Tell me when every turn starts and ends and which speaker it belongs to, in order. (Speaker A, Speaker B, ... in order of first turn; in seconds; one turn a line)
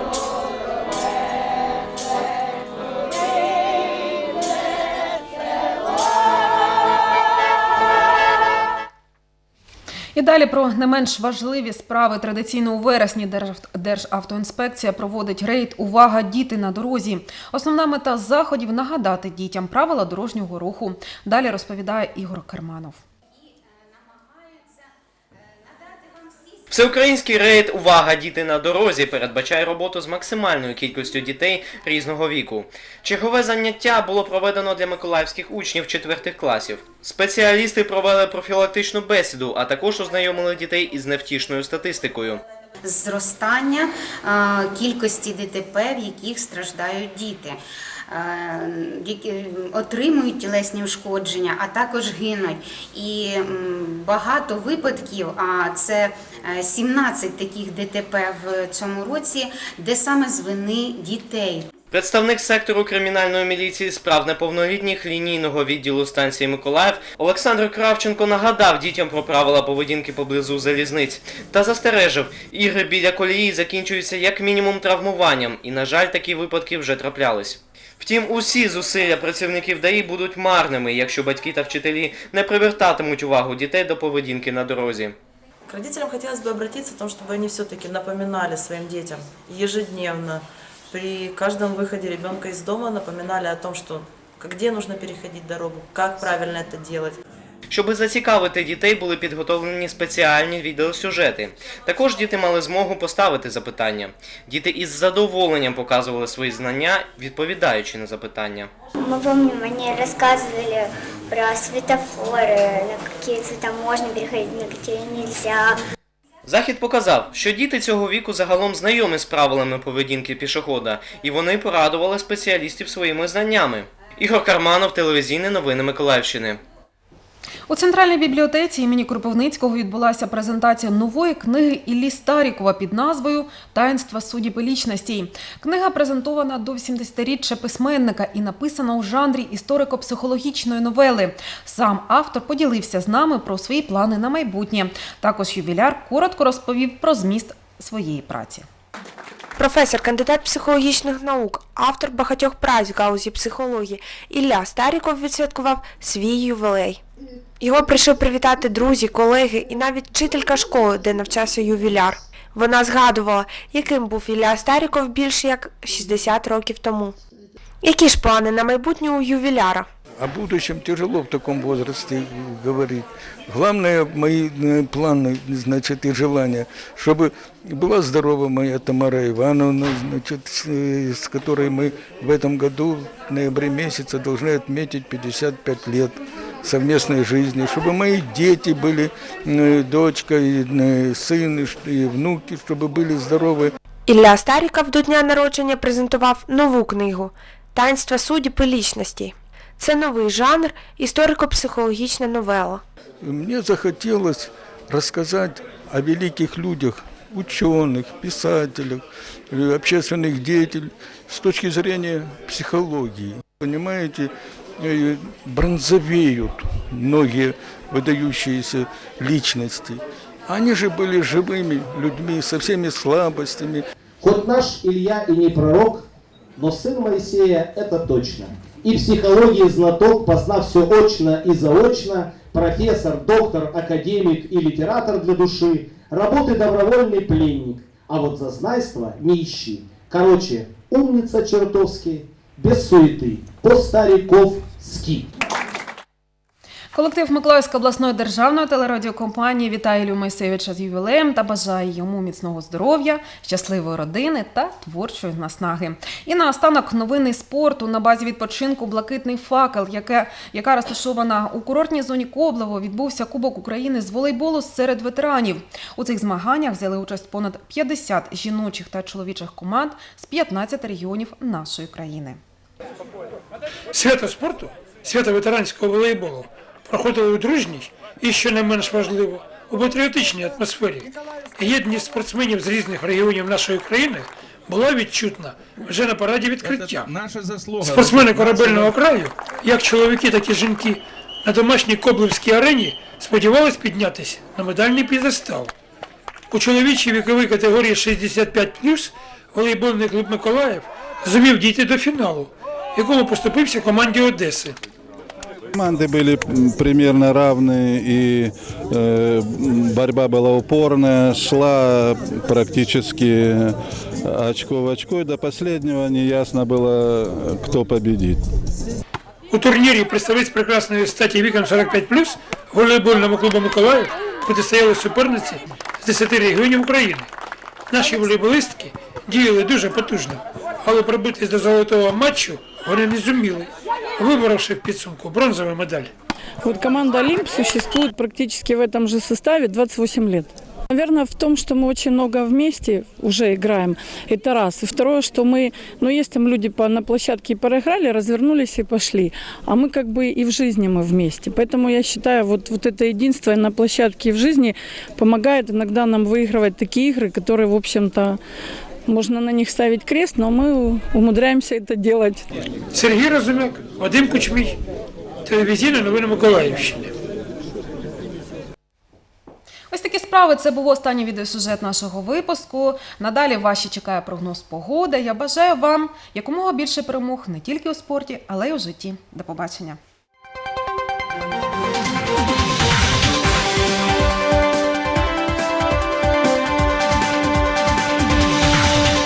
Speaker A: 10.1-23.0
Speaker B: 26.7-42.4
Speaker C: 42.8-47.6
Speaker C: 48.1-61.7
Speaker B: 61.9-85.1
Speaker D: 85.7-97.2
Speaker B: 97.7-108.7
Speaker E: 109.0-115.8
Speaker B: 116.5-126.6
Speaker A: 127.7-148.7
Speaker F: 149.6-157.0
Speaker F: 157.6-167.1
Speaker F: 167.8-169.8
Speaker G: 170.2-193.7
Speaker F: 194.1-202.8
Speaker G: 203.2-223.8
Speaker H: 224.2-226.1
Speaker H: 226.6-245.3
Speaker A: 246.9-272.4
Speaker I: 273.9-287.1
Speaker J: 286.6-289.0
Speaker I: 287.8-295.7
Speaker I: 296.5-304.8
Speaker J: 305.7-318.4
Speaker I: 319.5-327.3
Speaker I: 327.9-336.1
Speaker K: 336.6-358.4
Speaker K: 359.1-362.4
Speaker I: 362.9-364.8
Speaker I: 365.4-367.1
Speaker A: 369.9-380.0